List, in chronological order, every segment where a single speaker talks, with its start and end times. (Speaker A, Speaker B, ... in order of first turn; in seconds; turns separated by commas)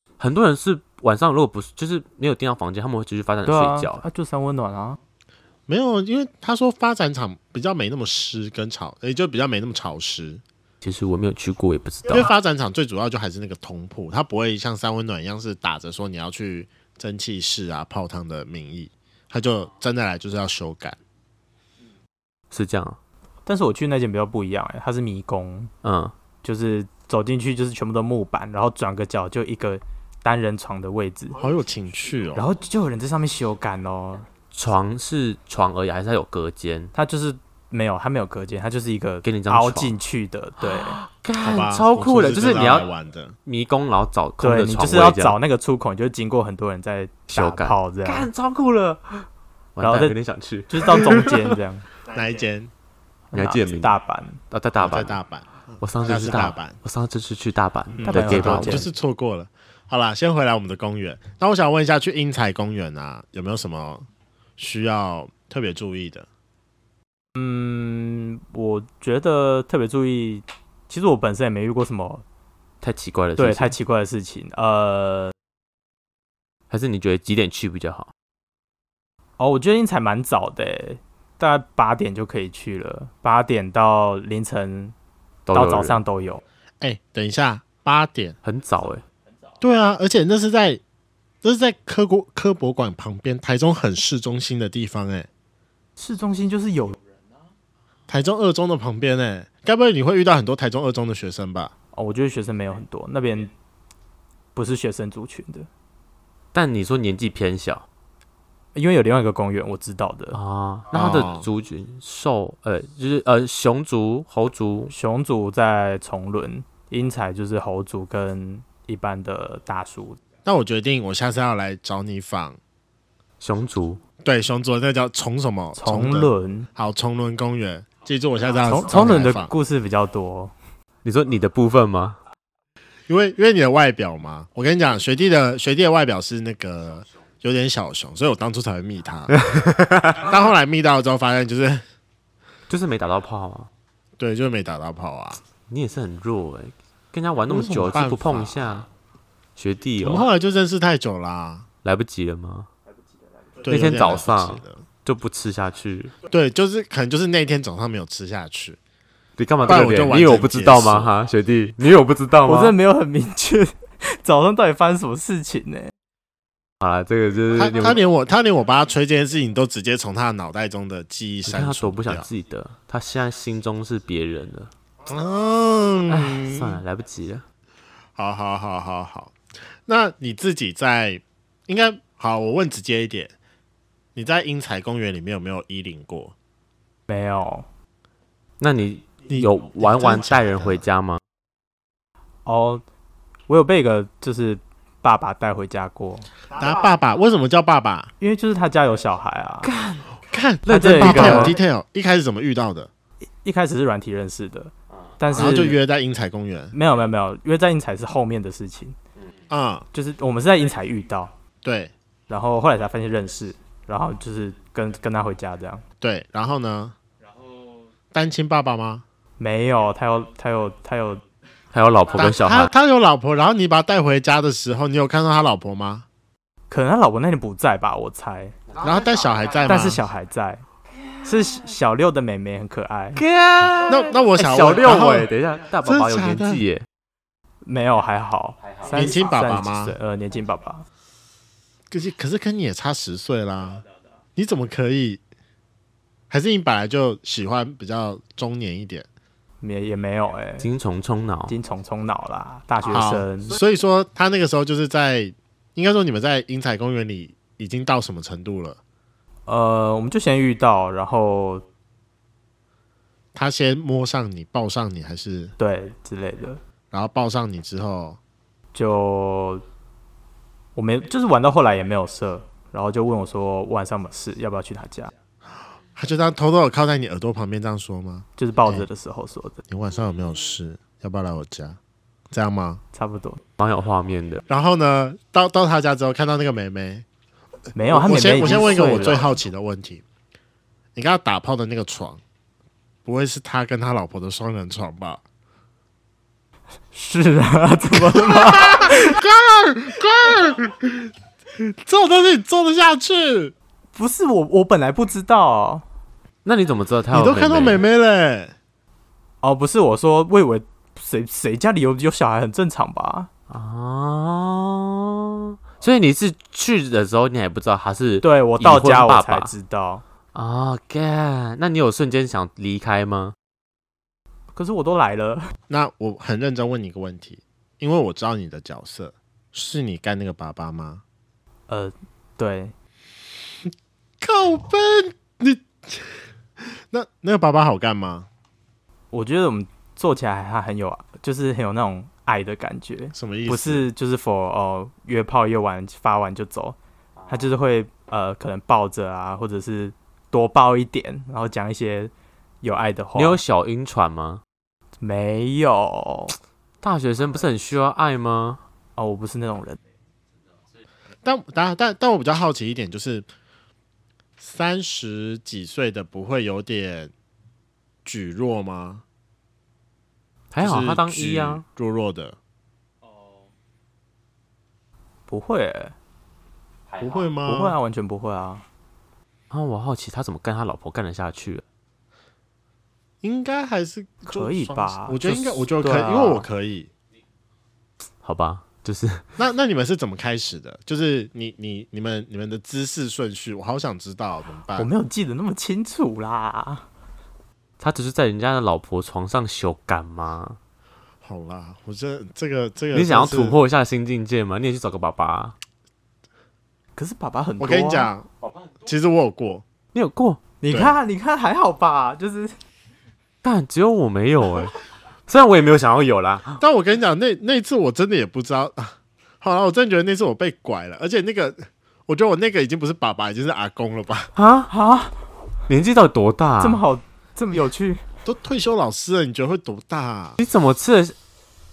Speaker A: 0.2-4.0, Speaker B: 3.5-5.0, Speaker C: 5.7-10.4, Speaker A: 10.8-12.3, Speaker C: 12.1-21.0, Speaker A: 22.5-23.0, Speaker B: 23.5-25.7, Speaker A: 25.8-26.1, Speaker B: 26.4-31.4, Speaker C: 31.4-32.5, Speaker B: 32.4-34.3, Speaker A: 34.5-36.9, Speaker B: 36.9-41.0, Speaker A: 39.2-40.0, Speaker A: 40.6-42.9, Speaker C: 41.4-43.3, Speaker A: 43.5-45.4, Speaker B: 44.4-48.3, Speaker A: 47.3-51.5, Speaker B: 49.8-50.1, Speaker B: 50.7-51.9, Speaker C: 52.1-52.7, Speaker B: 53.3-54.4, Speaker A: 53.3-54.0, Speaker A: 54.5-55.2, Speaker C: 54.8-55.5, Speaker A: 55.8-58.9, Speaker C: 56.0-56.8, Speaker C: 58.0-64.1, Speaker B: 58.0-58.9, Speaker C: 64.6-66.3, Speaker B: 67.4-72.2, Speaker A: 72.8-73.8, Speaker B: 73.4-75.3, Speaker A: 76.7-78.1, Speaker B: 79.4-85.0, Speaker A: 85.5-86.0, Speaker B: 85.5-86.4, Speaker C: 86.8-88.4, Speaker A: 88.4-89.0, Speaker C: 89.6-90.8, Speaker C: 91.4-95.3, Speaker B: 96.0-97.0, Speaker C: 98.1-101.7, Speaker B: 102.0-103.5, Speaker B: 104.5-105.7, Speaker A: 106.5-107.9, Speaker B: 108.8-110.4, Speaker A: 110.3-114.9, Speaker C: 110.9-111.5, Speaker B: 114.9-120.2, Speaker C: 120.5-122.6, Speaker A: 123.4-124.0, Speaker C: 124.2-129.5, Speaker B: 125.8-126.7, Speaker B: 128.7-130.5, Speaker A: 131.1-132.2, Speaker C: 133.1-139.3, Speaker A: 139.4-140.2, Speaker C: 140.1-141.8, Speaker A: 142.7-143.7, Speaker C: 144.2-145.4, Speaker A: 145.7-148.9, Speaker C: 147.5-148.8, Speaker A: 149.6-150.2, Speaker C: 150.0-151.7, Speaker A: 151.8-152.7, Speaker C: 153.6-154.8, Speaker A: 153.7-156.1, Speaker C: 156.3-158.8, Speaker A: 159.4-162.8, Speaker C: 159.6-161.1, Speaker B: 162.4-165.9, Speaker A: 166.8-168.0, Speaker C: 167.5-172.3, Speaker A: 171.5-174.7, Speaker C: 175.1-176.8, Speaker A: 176.1-177.4, Speaker C: 178.2-183.3, Speaker C: 184.2-186.3, Speaker B: 187.1-187.7, Speaker A: 188.6-191.2, Speaker C: 189.3-190.8, Speaker B: 192.5-192.8, Speaker B: 193.5-196.3, Speaker C: 196.6-198.1, Speaker B: 198.2-199.7, Speaker A: 199.6-200.1, Speaker C: 200.2-202.9, Speaker A: 200.7-201.6, Speaker B: 200.7-201.6, Speaker B: 203.4-205.8, Speaker C: 205.3-206.7, Speaker B: 206.7-209.0, Speaker C: 209.5-209.9, Speaker B: 209.9-211.3, Speaker C: 211.6-211.9, Speaker B: 212.3-215.8, Speaker C: 216.0-216.9, Speaker C: 218.1-219.0, Speaker B: 219.4-221.2, Speaker A: 221.7-222.7, Speaker C: 222.2-226.1, Speaker B: 226.7-228.6, Speaker C: 228.8-230.0, Speaker B: 229.7-230.6, Speaker B: 231.2-233.2, Speaker A: 233.2-236.8, Speaker C: 233.8-236.6, Speaker B: 237.7-240.8, Speaker C: 238.9-240.0, Speaker C: 241.9-243.8, Speaker C: 244.4-245.2, Speaker C: 246.3-249.1, Speaker B: 249.6-250.7, Speaker A: 250.6-251.5, Speaker B: 251.5-253.6, Speaker C: 252.9-258.8, Speaker B: 259.5-261.6, Speaker C: 263.3-265.5, Speaker B: 265.6-266.6, Speaker C: 266.9-268.2, Speaker B: 268.7-269.6, Speaker B: 270.8-275.1, Speaker C: 275.6-278.9, Speaker B: 278.4-279.6, Speaker C: 279.7-281.8, Speaker C: 282.3-282.8, Speaker B: 282.9-283.4, Speaker A: 283.6-284.4, Speaker C: 284.5-287.1, Speaker B: 287.7-289.2, Speaker C: 287.9-290.0, Speaker C: 290.9-292.2, Speaker C: 293.1-295.2, Speaker B: 296.9-299.2, Speaker C: 297.9-303.5, Speaker B: 303.9-305.8, Speaker A: 306.4-307.8, Speaker C: 307.1-308.6, Speaker B: 309.4-313.3, Speaker A: 313.5-319.5, Speaker B: 318.2-320.0, Speaker A: 320.4-323.4, Speaker B: 324.5-325.5, Speaker C: 325.7-331.0, Speaker B: 331.7-332.7, Speaker C: 334.2-338.3, Speaker B: 339.1-346.8, Speaker C: 343.1-343.9, Speaker B: 347.3-353.4, Speaker A: 353.2-354.4, Speaker B: 355.0-356.4, Speaker A: 356.8-358.6, Speaker B: 359.0-359.8, Speaker C: 361.2-363.3, Speaker C: 364.4-367.1, Speaker C: 368.1-369.0, Speaker A: 370.5-371.6, Speaker C: 370.6-372.4, Speaker B: 375.3-375.9, Speaker C: 377.0-377.8, Speaker B: 377.4-378.6, Speaker A: 379.5-381.6, Speaker C: 383.2-386.9, Speaker B: 384.2-386.5, Speaker A: 388.2-389.2, Speaker C: 389.4-394.9, Speaker B: 394.7-396.9, Speaker A: 397.8-400.6, Speaker C: 401.2-403.6, Speaker A: 402.9-405.5, Speaker B: 407.0-408.1, Speaker C: 407.6-408.3, Speaker C: 408.8-409.6, Speaker A: 409.9-410.4, Speaker B: 410.6-412.6, Speaker C: 410.7-411.0, Speaker A: 413.4-416.6, Speaker C: 416.6-424.3, Speaker A: 424.4-424.7, Speaker B: 424.7-425.2, Speaker A: 425.7-426.8, Speaker B: 426.6-428.0, Speaker C: 428.2-430.4, Speaker A: 430.4-431.1